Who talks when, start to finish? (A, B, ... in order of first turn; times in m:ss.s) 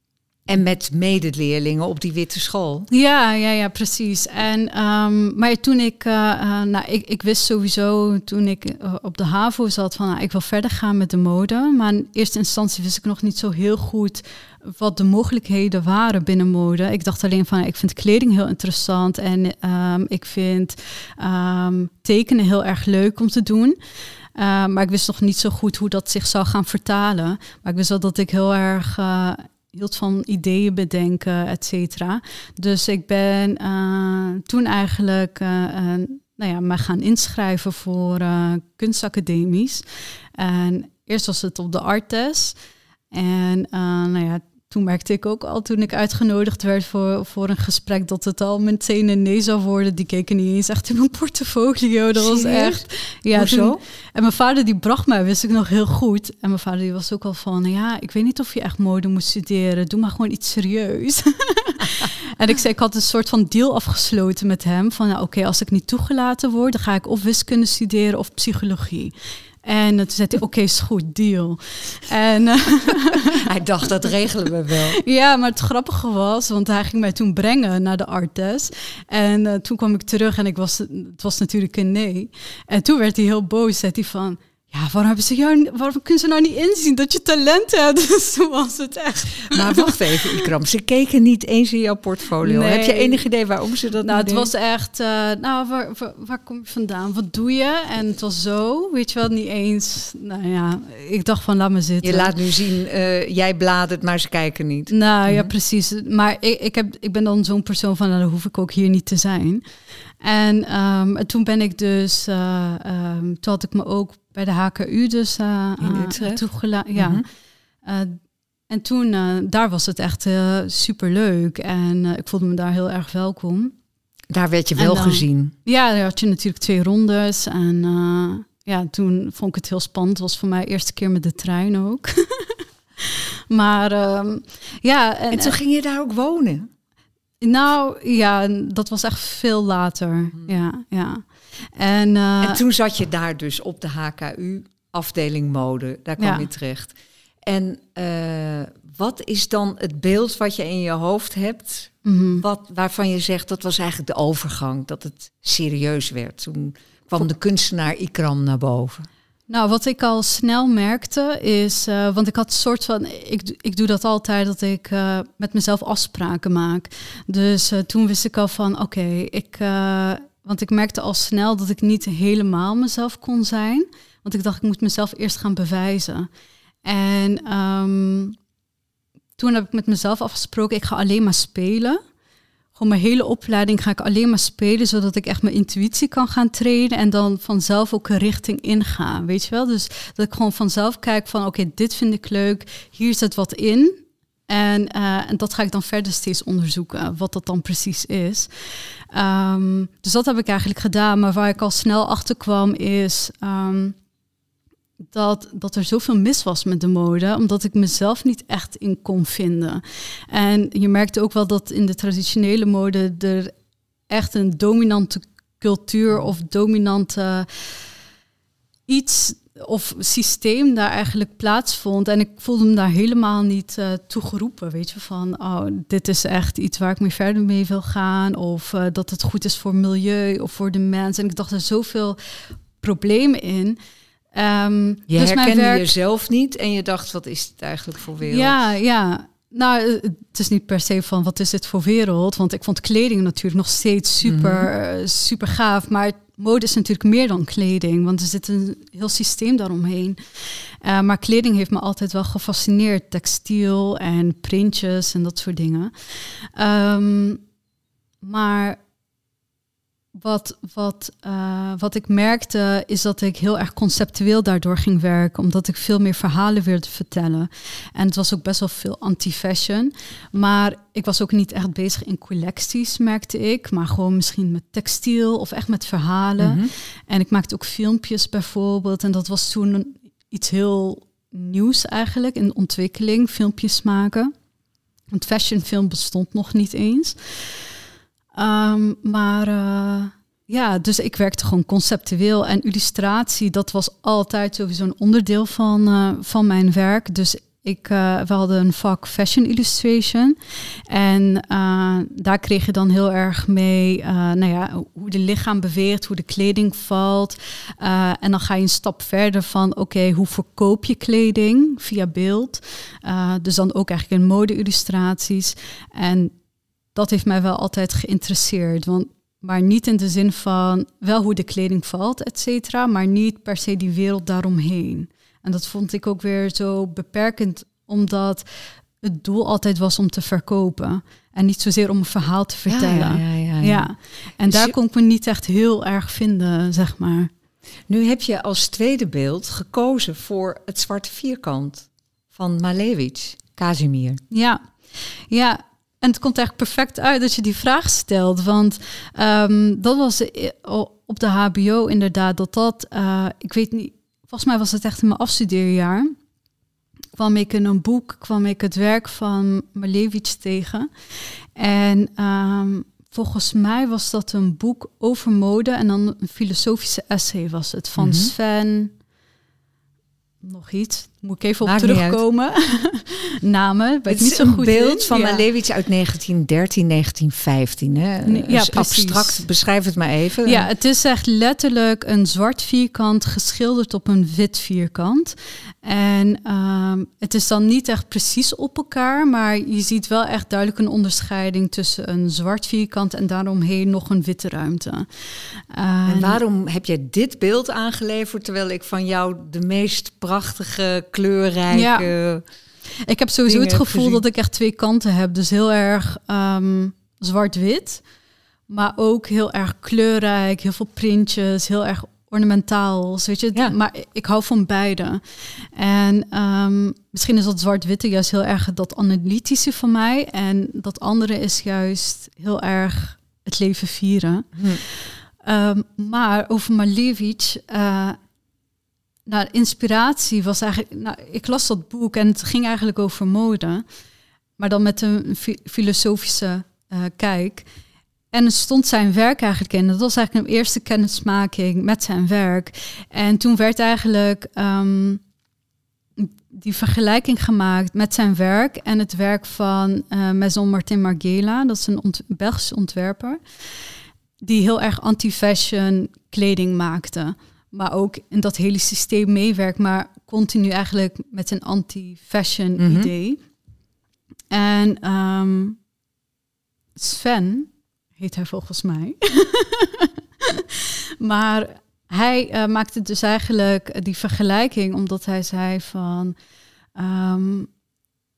0:00.5-0:02.9 A
0:02.9-0:23.8 B
0:24.4-0:39.8 B
0:40.4-0:42.6 B
0:43.1-1:09.1 B
0:52.2-0:53.8 A
1:09.6-1:13.4 B
1:13.1-1:15.0 A
1:15.0-1:30.5 B
1:29.5-1:34.5 A
1:32.4-1:33.2 B
1:34.0-1:42.3 B
1:42.0-1:45.5 A
1:44.9-1:49.6 B
1:50.2-1:57.2 B
1:55.8-1:56.4 A
1:57.0-1:57.2 A
1:57.8-1:58.2 B
1:58.7-2:03.7 B
2:04.3-2:05.5 A
2:04.8-2:15.6 B
2:15.3-2:16.7 A
2:17.4-2:22.6 B
2:22.4-2:39.1 A
2:26.2-2:26.5 B
2:32.0-2:32.4 B
2:39.5-2:56.3 B
2:56.8-2:58.4 B
2:59.4-3:02.0 B
3:02.8-3:18.5 B
3:19.1-3:24.0 B
3:25.1-3:33.5 B
3:34.1-3:37.7 B
3:38.9-3:52.2 B
3:52.8-3:53.8 B
3:54.3-3:55.9 B
3:55.1-3:58.6 A
3:58.2-4:17.4 B
4:04.2-4:04.7 A
4:18.2-4:18.8 B
4:20.1-4:44.3 B
4:36.4-4:36.7 A
4:45.1-4:47.7 B
4:48.4-5:00.4 B
5:00.9-5:16.3 B
5:17.0-5:28.4 B
5:29.0-5:37.3 B
5:32.7-5:33.9 A
5:34.5-5:34.7 A
5:37.9-5:44.2 A
5:44.3-5:44.7 B
5:45.3-5:56.1 B
5:57.2-6:00.9 B
6:01.6-6:08.9 B
6:08.0-6:08.3 A
6:10.4-6:15.4 B
6:11.6-6:12.2 A
6:14.1-6:20.7 A
6:18.2-6:19.4 B
6:20.4-6:35.1 B
6:35.6-6:36.4 B
6:36.1-6:42.4 A
6:41.7-6:42.1 B
6:43.1-6:48.0 B
6:43.5-6:44.2 A
6:48.7-7:08.2 B
7:09.3-7:13.8 B
7:14.6-7:17.7 B
7:18.3-7:25.2 B
7:26.2-7:33.4 B
7:34.4-7:43.4 B
7:42.8-7:43.1 A
7:44.5-7:45.8 B
7:47.0-7:56.4 B
7:57.0-7:57.7 B